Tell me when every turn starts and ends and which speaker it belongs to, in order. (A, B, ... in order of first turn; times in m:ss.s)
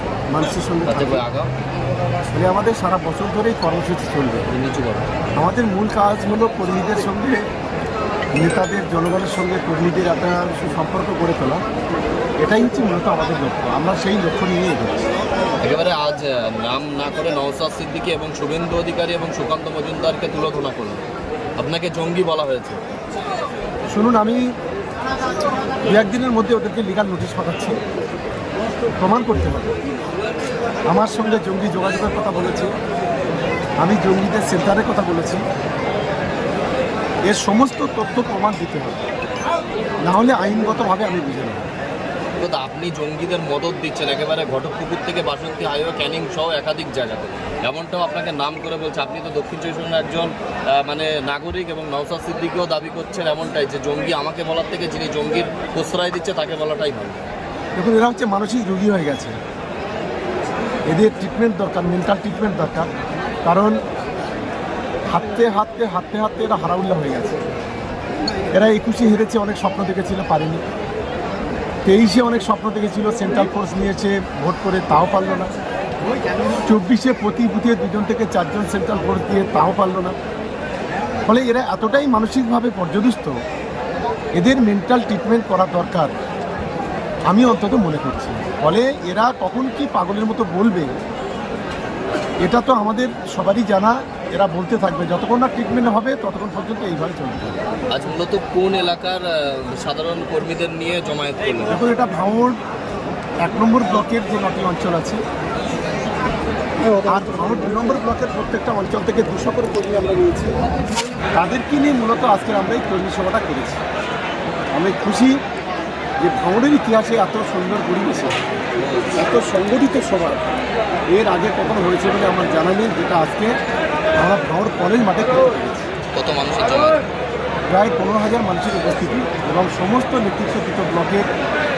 0:00.3-0:01.2 A
0:00.9-0:01.5 B
0:02.3-0:04.4 A
0:04.5-0:05.1 B
0:05.4-0:07.4 A
0:08.4-0:11.6 A
0:12.4-0:15.1 A
0:15.6-0:21.0 B
0:21.6-0:22.8 B
0:23.9-0:24.5 A
0:25.8-0:27.8 A
0:29.0-0:29.7 A
0:30.9-0:32.7 A
0:33.8-0:35.4 A
0:37.3-0:39.0 A
0:40.0-0:41.7 A
0:42.4-0:57.2 B
0:57.8-0:59.4 A
1:00.9-1:02.9 A
1:03.4-1:03.8 A
1:05.1-1:07.4 A
1:08.5-1:10.6 A
1:11.8-1:15.5 A
1:16.7-1:20.2 A
1:21.2-1:23.4 A
1:24.4-1:26.1 A
1:27.3-1:30.9 A
1:32.4-1:37.6 A
1:37.9-1:41.8 B
1:41.7-1:42.6 A
1:43.4-1:45.2 A
1:46.9-1:50.5 A
1:51.3-1:53.8 A
1:54.7-1:55.4 A
1:56.2-1:58.4 A
1:58.8-1:59.2 B
1:59.1-2:00.4 A
2:01.1-2:03.5 A
2:04.2-2:05.9 A
2:06.1-2:07.0 B
2:07.7-2:11.3 A